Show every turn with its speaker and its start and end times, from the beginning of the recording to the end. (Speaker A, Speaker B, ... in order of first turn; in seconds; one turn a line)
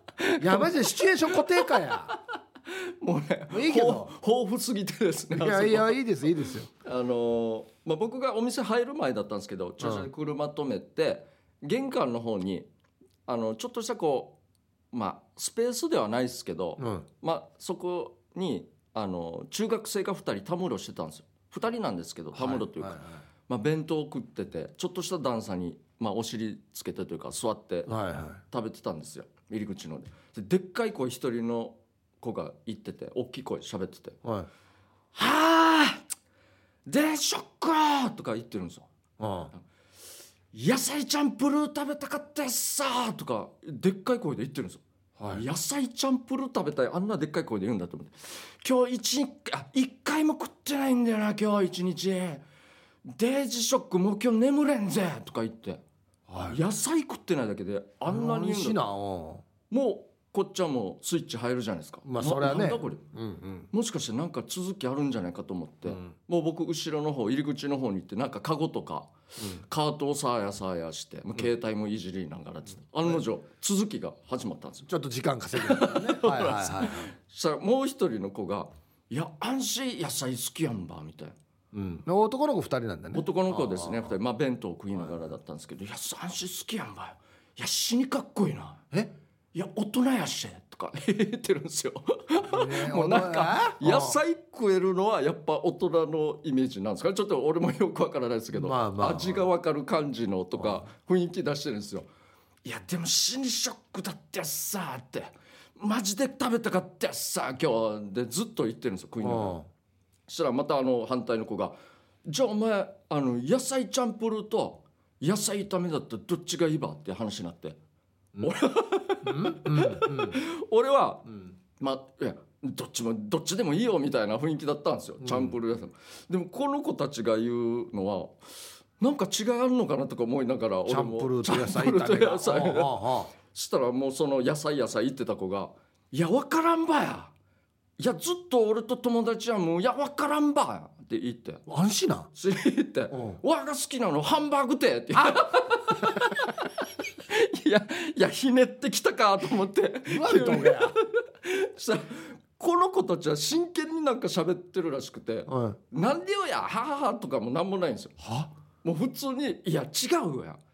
Speaker A: 0.2-6.0
Speaker B: 0.4-2.1
Speaker B: 3.5-4.1
Speaker B: 5.3-6.7
Speaker A: 6.8-12.7
Speaker B: 9.8-10.1
Speaker A: 13.2-14.4
Speaker A: 14.9-28.0
Speaker B: 16.8-17.1
Speaker B: 22.3-23.2
Speaker B: 27.9-28.4
Speaker A: 28.5-34.2
Speaker B: 34.2-34.5
Speaker A: 35.1-36.0
Speaker A: 36.9-38.9
Speaker B: 39.2-39.5
Speaker A: 40.5-52.4
Speaker B: 45.2-45.4
Speaker A: 53.0-55.8
Speaker B: 56.3-56.6
Speaker A: 56.4-58.8
Speaker B: 58.0-59.4
Speaker A: 59.7-63.0
Speaker B: 62.0-63.7
Speaker A: 63.7-74.9
Speaker B: 69.4-69.6
Speaker B: 74.9-77.1
Speaker A: 75.5-81.3
Speaker B: 81.7-84.1
Speaker A: 83.1-88.8
Speaker A: 89.5-102.1
Speaker B: 92.4-94.2
Speaker B: 98.5-99.5
Speaker B: 100.6-100.8
Speaker A: 102.6-109.6
Speaker B: 109.2-109.7
Speaker A: 110.3-117.8
Speaker A: 118.4-128.4
Speaker B: 119.2-120.4
Speaker B: 125.2-125.5
Speaker A: 129.0-137.3
Speaker B: 130.8-133.3
Speaker A: 138.0-141.6
Speaker B: 141.7-142.3
Speaker A: 142.3-146.7
Speaker B: 143.1-143.4
Speaker B: 145.1-146.2
Speaker A: 147.2-158.1
Speaker B: 150.1-150.9
Speaker B: 155.5-155.8
Speaker B: 158.2-158.5
Speaker A: 158.8-160.6